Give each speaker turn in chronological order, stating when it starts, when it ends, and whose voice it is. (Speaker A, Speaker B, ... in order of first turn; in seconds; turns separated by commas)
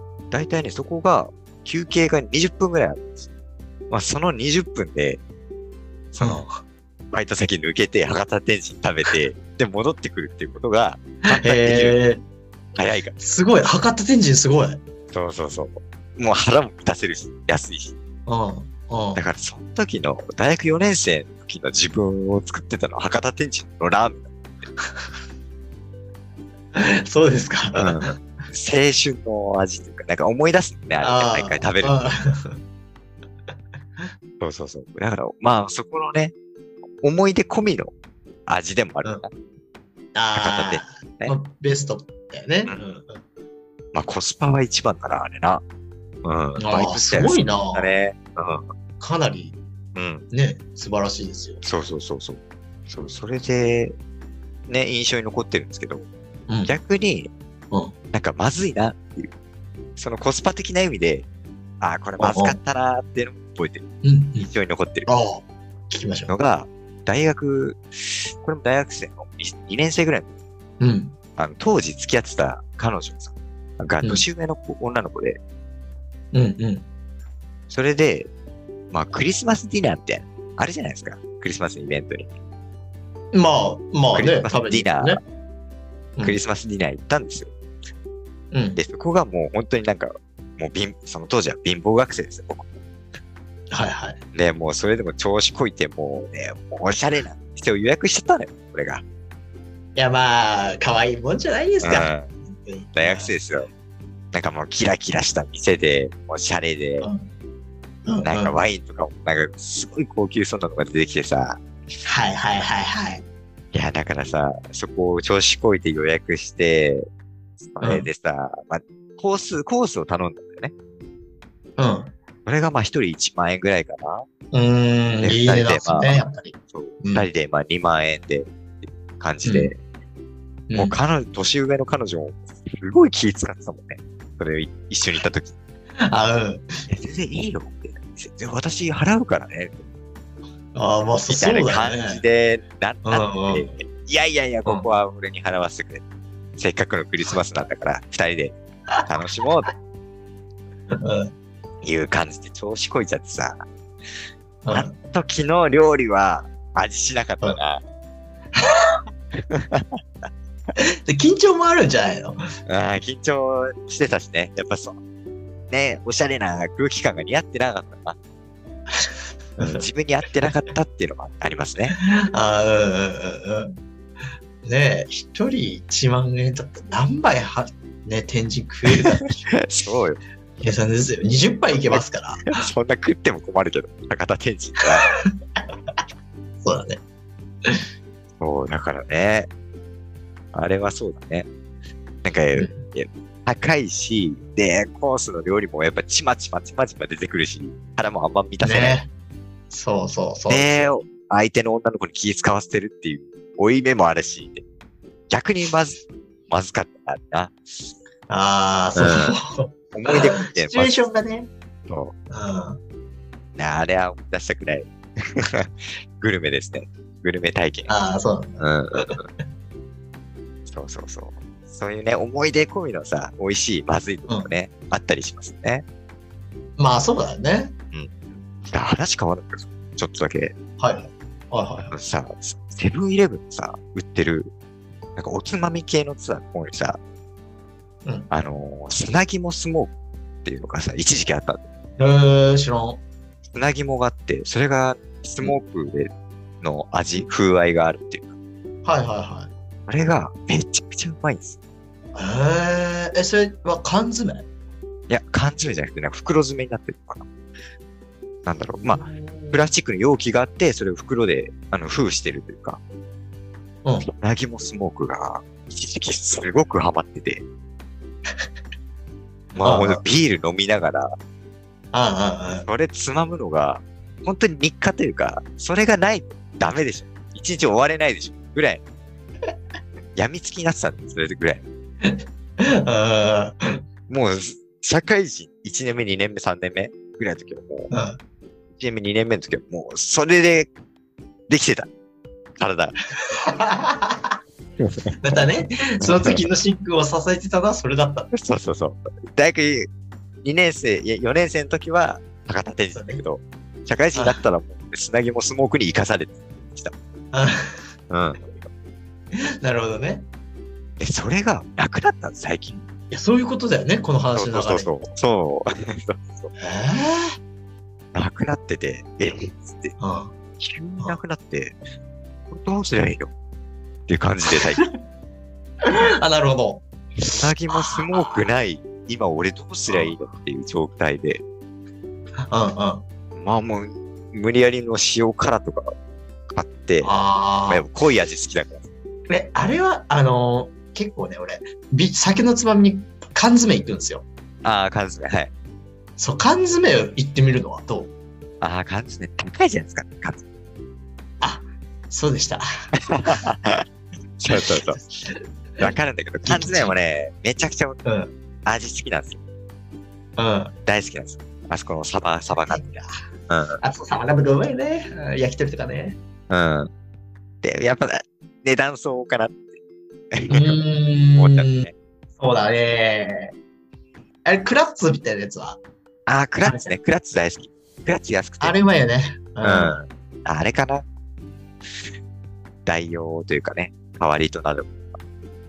Speaker A: 0.3-3.3, Speaker A: 3.9-5.2, Speaker A: 6.1-6.4, Speaker B: 6.2-6.6, Speaker A: 7.1-12.0, Speaker B: 11.3-12.2, Speaker A: 12.8-13.2, Speaker B: 13.2-14.8, Speaker A: 15.1-17.9, Speaker B: 18.3-19.2, Speaker A: 19.1-24.3, Speaker B: 24.8-25.1, Speaker B: 26.8-28.2, Speaker A: 27.7-32.1, Speaker B: 31.0-32.6, Speaker A: 34.4-36.3, Speaker A: 37.0-37.9, Speaker A: 38.5-39.3, Speaker B: 40.1-43.2, Speaker A: 40.4-41.4, Speaker A: 43.9-45.6, Speaker A: 46.2-48.7, Speaker B: 46.6-47.9, Speaker B: 49.0-49.6, Speaker A: 50.0-50.2, Speaker B: 50.3-51.6, Speaker A: 51.6-54.0, Speaker A: 54.7-56.1, Speaker B: 56.5-56.7, Speaker A: 56.6-57.3, Speaker A: 58.1-59.3, Speaker A: 60.0-61.3, Speaker A: 61.8-63.9, Speaker B: 62.2-62.6, Speaker B: 64.0-64.5, Speaker A: 64.4-65.1, Speaker B: 65.1-66.3, Speaker A: 66.3-70.3, Speaker B: 70.8-71.2, Speaker A: 71.4-75.4, Speaker B: 76.3-76.8, Speaker A: 77.7-78.3, Speaker A: 78.9-82.3, Speaker B: 83.3-85.2, Speaker A: 84.1-85.2, Speaker A: 86.2-87.5, Speaker B: 88.5-88.8, Speaker A: 88.8-92.7, Speaker B: 93.7-94.2, Speaker A: 94.3-99.0, Speaker B: 100.0-103.4, Speaker A: 101.8-102.3, Speaker A: 103.0-103.7, Speaker A: 104.3-107.1, Speaker B: 107.0-107.3, Speaker B: 108.1-108.6, Speaker A: 108.2-111.6, Speaker B: 112.0-113.2, Speaker A: 113.7-117.0, Speaker A: 117.7-120.7, Speaker B: 117.8-118.1, Speaker B: 121.8-122.1, Speaker A: 122.5-124.3, Speaker B: 124.5-127.3, Speaker A: 125.2-129.8, Speaker B: 129.4-129.7, Speaker B: 130.7-131.0, Speaker A: 130.8-135.6, Speaker B: 136.1-136.7, Speaker A: 136.9-139.8, Speaker B: 140.7-142.2, Speaker A: 141.3-146.0, Speaker B: 143.1-143.8, Speaker A: 146.6-148.6, Speaker A: 149.1-149.7, Speaker B: 150.9-151.3, Speaker A: 151.8-153.7, Speaker B: 154.7-154.9, Speaker A: 154.7-157.8, Speaker A: 159.5-160.0, Speaker B: 160.8-162.4, Speaker A: 162.7-165.0, Speaker A: 165.7-168.2, Speaker B: 168.9-169.8, Speaker A: 169.6-172.0, Speaker B: 172.0-173.8, Speaker B: 174.6-179.2, Speaker A: 179.5-180.2, Speaker B: 180.6-182.6, Speaker A: 181.9-185.1, Speaker B: 185.1-185.3, Speaker B: 186.6-187.0, Speaker A: 188.4-189.5, Speaker A: 190.5-191.5, Speaker A: 192.2-199.0, Speaker B: 192.5-192.8, Speaker B: 198.6-199.1, Speaker B: 199.7-201.0, Speaker A: 200.5-204.6, Speaker A: 205.3-207.6, Speaker B: 208.3-211.5, Speaker A: 208.9-209.4, Speaker A: 209.9-211.0, Speaker A: 211.9-212.1, Speaker B: 212.3-212.8, Speaker A: 213.6-217.9, Speaker B: 217.9-219.2, Speaker A: 218.6-219.2, Speaker A: 220.7-225.8, Speaker B: 226.8-227.7, Speaker A: 227.9-230.5, Speaker B: 230.8-231.9, Speaker A: 231.9-234.5, Speaker A: 235.2-237.0, Speaker A: 238.3-239.9, Speaker A: 240.4-241.7, Speaker B: 242.0-243.0, Speaker A: 243.5-246.1, Speaker A: 246.6-248.3, Speaker B: 248.8-249.5, Speaker A: 249.9-251.6, Speaker B: 252.1-254.5, Speaker A: 255.1-257.3, Speaker A: 258.4-262.8, Speaker B: 258.8-259.7, Speaker B: 263.8-264.1, Speaker A: 264.1-267.4, Speaker A: 269.5-271.1, Speaker B: 269.6-270.0, Speaker B: 271.9-272.7, Speaker A: 272.7-278.8, Speaker A: 280.2-281.6, Speaker B: 282.0-283.6, Speaker A: 284.1-287.9, Speaker B: 287.9-288.2, Speaker A: 288.8-290.7, Speaker A: 291.5-291.9, Speaker A: 292.6-293.0, Speaker B: 293.3-294.4, Speaker A: 294.8-295.1, Speaker B: 295.2-298.3, Speaker A: 296.1-296.4, Speaker A: 298.3-299.9, Speaker A: 300.4-306.9, Speaker B: 302.9-303.2, Speaker B: 304.1-304.4, Speaker B: 307.3-307.8, Speaker A: 308.1-308.5, Speaker B: 309.6-310.3, Speaker A: 311.0-312.8, Speaker B: 312.7-314.9, Speaker A: 314.4-316.5, Speaker B: 316.6-317.4, Speaker A: 318.1-319.9, Speaker B: 320.0-320.3, Speaker A: 320.6-321.8, Speaker A: 322.5-323.3, Speaker A: 324.1-324.8, Speaker B: 324.6-324.9, Speaker B: 325.9-326.8, Speaker A: 327.3-331.4, Speaker B: 327.7-328.5, Speaker B: 329.9-330.2, Speaker B: 332.4-333.0, Speaker A: 333.4-335.9, Speaker A: 336.5-337.1, Speaker B: 337.0-337.9, Speaker A: 337.7-338.9, Speaker B: 339.3-344.2, Speaker A: 344.6-345.5, Speaker B: 346.2-348.1, Speaker A: 348.6-350.4, Speaker B: 351.4-352.6, Speaker A: 353.1-353.8, Speaker A: 354.4-355.0, Speaker B: 354.5-355.9, Speaker A: 355.8-358.0, Speaker B: 356.4-357.0, Speaker B: 358.1-358.3, Speaker A: 358.6-359.4, Speaker B: 360.4-360.7, Speaker A: 360.9-363.8, Speaker B: 362.7-363.2, Speaker B: 363.8-366.2, Speaker A: 366.5-366.9, Speaker A: 367.6-369.8, Speaker A: 370.3-370.8, Speaker B: 370.5-371.9, Speaker A: 371.4-371.9, Speaker B: 372.4-373.5, Speaker B: 374.4-375.8, Speaker A: 376.3-378.8, Speaker B: 376.6-376.9, Speaker B: 378.6-380.0, Speaker A: 379.6-381.0, Speaker A: 382.9-385.1